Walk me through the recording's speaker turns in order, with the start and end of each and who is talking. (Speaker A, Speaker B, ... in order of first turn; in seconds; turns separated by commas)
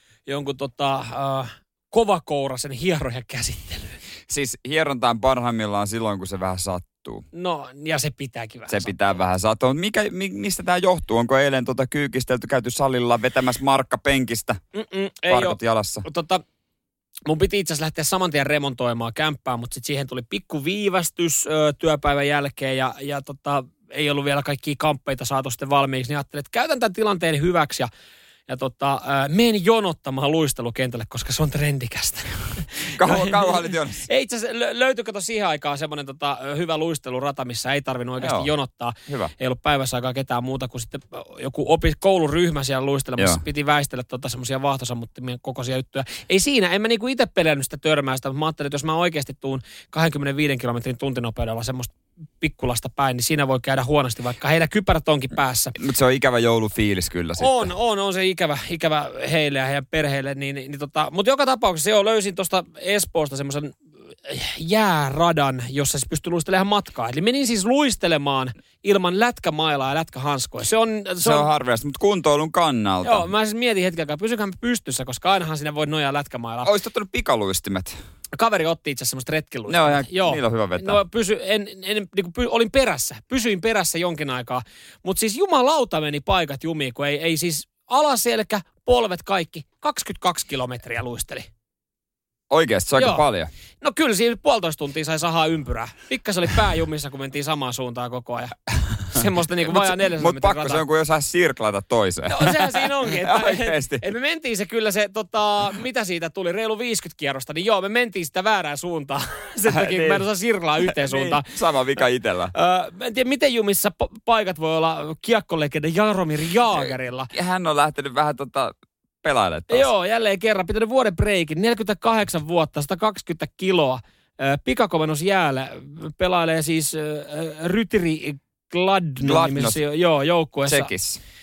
Speaker A: 0.2-4.0, Speaker B: 4.3-7.2, Speaker A: 7.3-8.9, Speaker B: 8.7-14.6, Speaker A: 14.7-16.4, Speaker B: 15.3-16.0, Speaker A: 17.2-27.9, Speaker A: 28.5-55.7, Speaker B: 32.9-34.0, Speaker B: 38.2-38.5, Speaker B: 39.1-39.3, Speaker B: 55.7-57.7, Speaker A: 57.4-71.5, Speaker B: 71.2-73.3, Speaker A: 73.0-76.7, Speaker B: 76.6-78.0, Speaker A: 78.3-91.5, Speaker B: 79.7-81.0, Speaker B: 92.5-93.5, Speaker A: 93.0-93.2, Speaker A: 93.8-100.8, Speaker B: 99.6-104.0, Speaker A: 102.3-111.5, Speaker B: 109.7-110.2, Speaker B: 110.8-112.5, Speaker A: 112.5-117.3, Speaker B: 116.7-119.9, Speaker A: 119.7-130.9, Speaker B: 129.2-129.8, Speaker B: 130.7-131.2